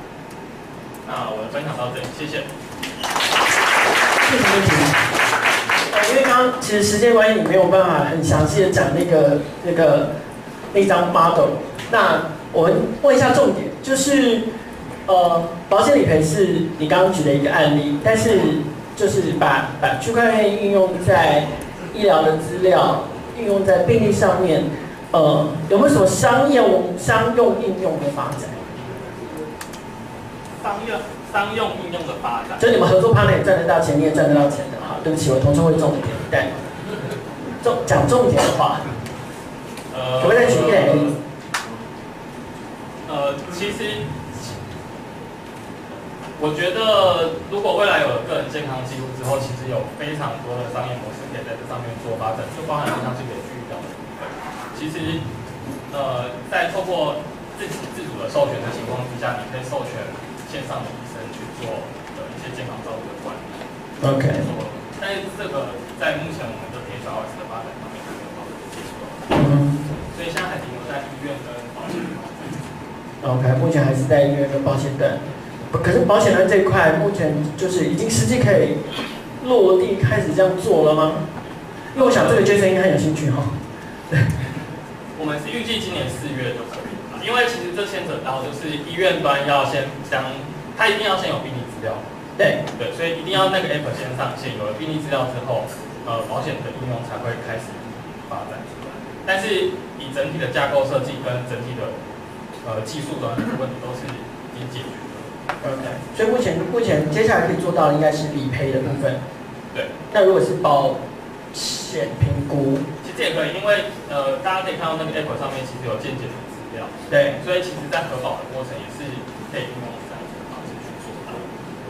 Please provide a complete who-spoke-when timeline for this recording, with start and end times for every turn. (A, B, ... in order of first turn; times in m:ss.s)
0:01.0-0:02.5 A
0:04.2-0:05.0 B
0:05.9-0:10.1 B
0:10.7-0:14.4 B
0:15.1-0:28.6 B
0:30.6-0:32.8 A
0:32.6-0:36.5 B
0:37.6-0:38.8 B
0:39.9-0:41.2 A
0:40.2-0:41.2 B
0:43.1-0:44.5 A
0:46.4-0:55.2 A
0:55.9-1:03.6 A
1:04.0-1:04.5 B
1:04.3-1:09.3 A
1:09.3-1:09.8 B
1:10.0-1:12.5 A
1:13.2-1:18.8 B
1:19.4-1:21.2 B
1:21.9-1:23.6 B
1:22.0-1:22.5 A
1:24.1-1:24.4 B
1:25.2-1:32.0 A
1:32.4-1:32.6 B
1:32.8-1:38.7 A
1:39.2-1:42.0 A
1:42.6-1:45.3 A
1:45.6-1:49.2 B
1:50.1-1:51.0 B
1:51.5-1:52.8 B
1:53.0-2:01.5 A
1:57.1-1:57.4 B